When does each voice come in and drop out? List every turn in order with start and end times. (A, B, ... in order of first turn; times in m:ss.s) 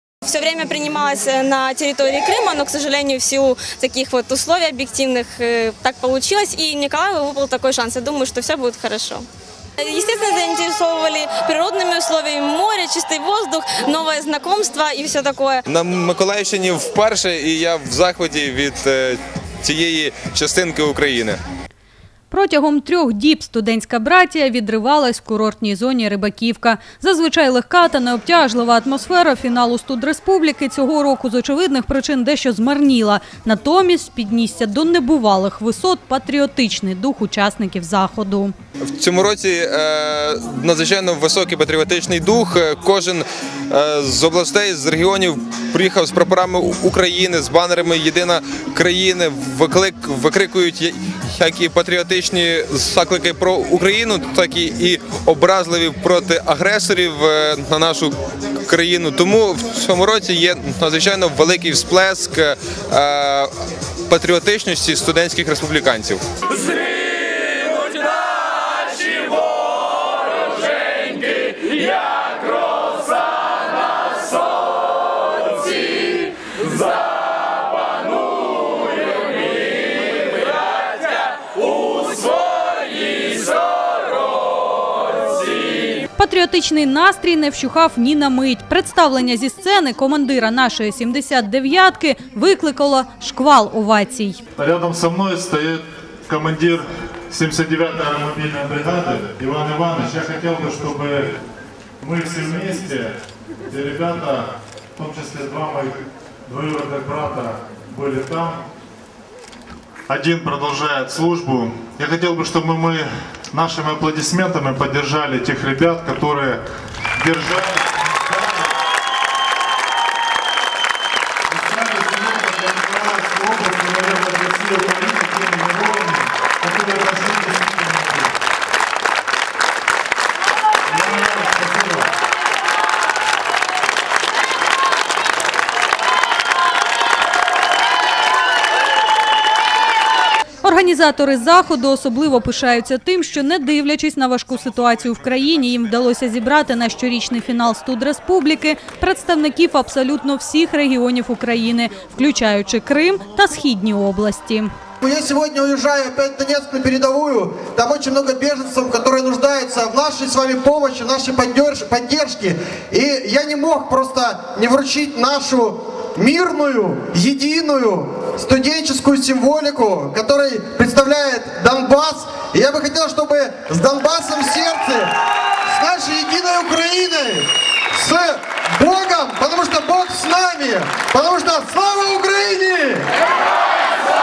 0:00.2-0:09.2 A
0:09.8-0:15.6 A
0:15.7-0:21.4 B
0:22.3-0:38.5 C
0:38.9-1:03.5 B
1:04.1-1:06.2 B
1:26.2-1:34.4 C
1:34.6-1:41.3 D
1:42.0-1:43.1 D
1:43.7-1:48.6 D
1:50.1-1:56.6 D
1:57.2-1:58.6 D
2:01.5-2:08.3 D
2:10.8-2:12.1 D
2:20.6-2:34.7 C
2:35.0-2:55.1 E
2:55.7-3:03.0 E